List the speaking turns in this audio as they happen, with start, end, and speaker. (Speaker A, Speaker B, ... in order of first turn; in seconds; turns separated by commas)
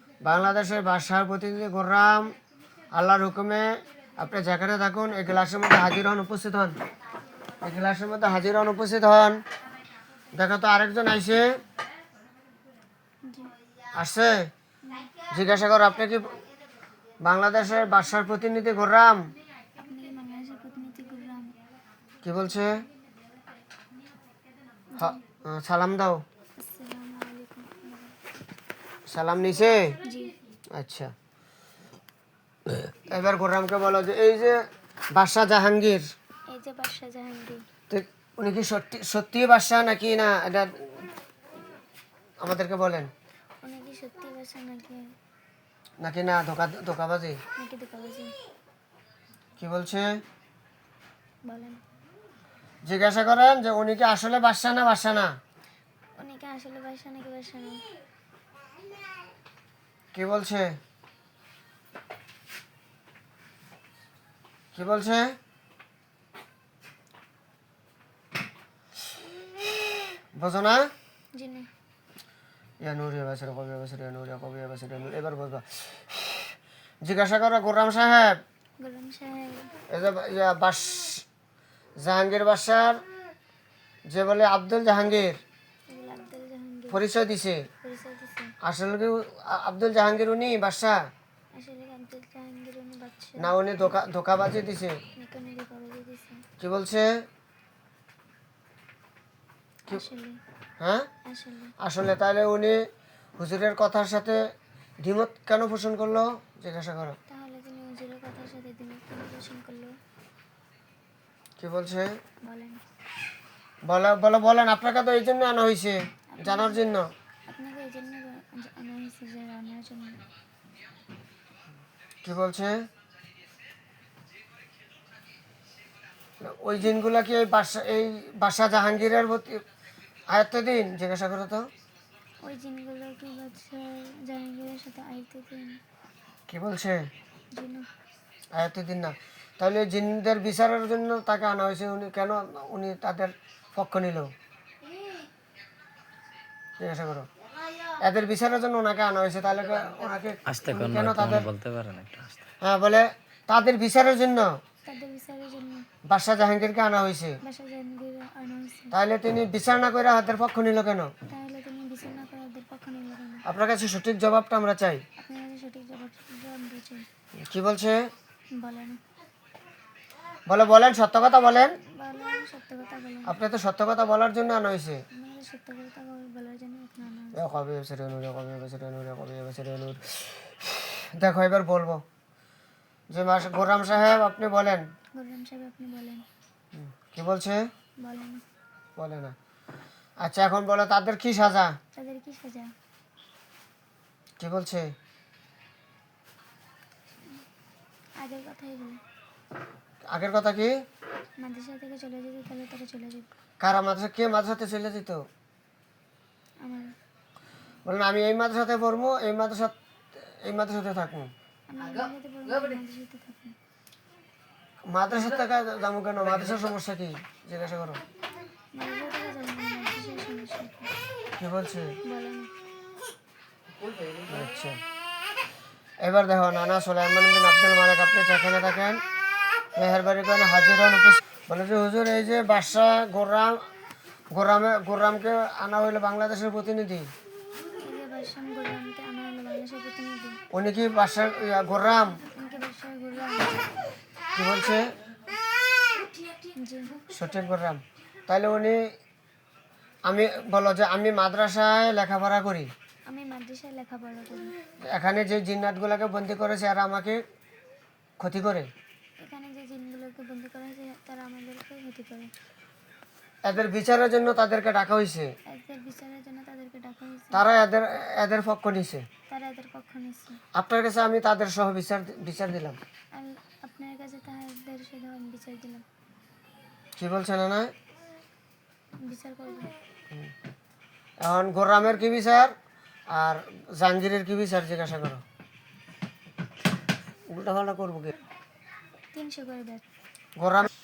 Speaker A: 0.2-2.4, Speaker A: 2.9-6.8, Speaker A: 7.6-9.4, Speaker A: 10.3-11.6, Speaker B: 13.2-13.6, Speaker A: 13.9-14.5, Speaker B: 14.9-15.1, Speaker A: 15.3-16.4, Speaker A: 17.2-19.2, Speaker B: 19.8-21.6, Speaker A: 22.2-22.8, Speaker A: 25.0-26.2, Speaker B: 26.6-28.2, Speaker A: 29.1-30.0, Speaker B: 30.0-30.3, Speaker A: 30.7-31.1, Speaker A: 32.7-34.6, Speaker A: 35.1-36.1, Speaker B: 36.5-37.6, Speaker A: 37.9-41.1, Speaker A: 42.4-43.1, Speaker B: 43.6-45.1, Speaker A: 46.0-47.4, Speaker B: 47.6-48.3, Speaker A: 49.6-50.1, Speaker B: 51.5-51.8, Speaker A: 52.9-55.3, Speaker B: 56.2-57.8, Speaker A: 60.1-60.8, Speaker A: 64.8-65.4, Speaker A: 70.3-70.9, Speaker B: 71.3-71.7, Speaker A: 72.8-78.4, Speaker B: 78.8-79.7, Speaker A: 79.9-81.2, Speaker A: 82.0-83.0, Speaker A: 84.1-85.4, Speaker B: 85.9-87.0, Speaker A: 86.9-87.7, Speaker B: 87.8-88.5, Speaker A: 88.6-91.1, Speaker B: 91.5-93.5, Speaker A: 93.4-95.0, Speaker B: 95.2-96.4, Speaker A: 96.6-97.2, Speaker B: 99.9-100.4, Speaker A: 100.8-101.1, Speaker B: 101.3-101.7, Speaker A: 101.8-102.8, Speaker A: 103.4-104.4, Speaker A: 105.0-107.2, Speaker B: 107.3-110.0, Speaker A: 111.6-112.1, Speaker B: 112.4-112.8, Speaker A: 113.9-117.1, Speaker B: 116.3-116.9, Speaker B: 117.5-120.2, Speaker A: 122.2-122.8, Speaker A: 126.4-129.6, Speaker A: 130.3-131.7, Speaker B: 132.4-135.8, Speaker A: 136.5-137.1, Speaker B: 137.5-137.9, Speaker A: 138.6-144.3, Speaker A: 146.8-147.3, Speaker A: 148.0-151.5, Speaker C: 150.5-152.5, Speaker A: 152.6-154.6, Speaker B: 154.8-155.8, Speaker A: 156.1-157.4, Speaker B: 157.4-158.9, Speaker A: 158.9-161.1, Speaker B: 161.3-163.4, Speaker A: 163.5-165.0, Speaker B: 165.2-167.1, Speaker A: 167.4-168.1, Speaker B: 168.5-169.0, Speaker A: 170.5-171.8, Speaker B: 171.9-173.3, Speaker A: 173.3-175.0, Speaker B: 175.1-177.4, Speaker A: 177.3-182.0, Speaker A: 183.1-184.8, Speaker B: 185.2-186.2, Speaker A: 186.7-187.7, Speaker B: 188.0-188.4, Speaker A: 189.0-189.3, Speaker A: 190.2-191.8, Speaker B: 191.9-192.7, Speaker A: 194.4-194.9, Speaker B: 198.2-199.0, Speaker A: 200.1-200.8, Speaker B: 201.4-203.3, Speaker A: 203.6-205.2, Speaker B: 206.6-206.9, Speaker A: 207.8-211.3, Speaker B: 211.7-213.6, Speaker A: 214.9-218.0, Speaker B: 218.8-220.9, Speaker A: 221.4-221.9, Speaker B: 222.1-222.5, Speaker A: 224.2-224.8, Speaker A: 226.0-229.0, Speaker A: 229.8-233.6, Speaker A: 234.3-237.1, Speaker B: 237.8-240.4, Speaker A: 240.5-242.2, Speaker B: 242.3-243.7, Speaker A: 244.4-244.9, Speaker B: 246.5-247.1, Speaker A: 247.1-248.8, Speaker A: 250.1-252.7, Speaker B: 253.1-254.6, Speaker A: 254.8-257.2, Speaker A: 258.2-258.7, Speaker B: 259.2-262.3, Speaker A: 263.4-265.3, Speaker B: 265.5-267.4, Speaker A: 267.3-269.1, Speaker B: 269.3-270.4, Speaker A: 270.5-272.8, Speaker B: 273.1-275.9, Speaker A: 277.0-277.7, Speaker B: 279.0-279.8, Speaker A: 281.2-282.5, Speaker A: 283.1-285.2, Speaker A: 287.3-288.2, Speaker B: 289.1-289.9, Speaker A: 290.4-290.7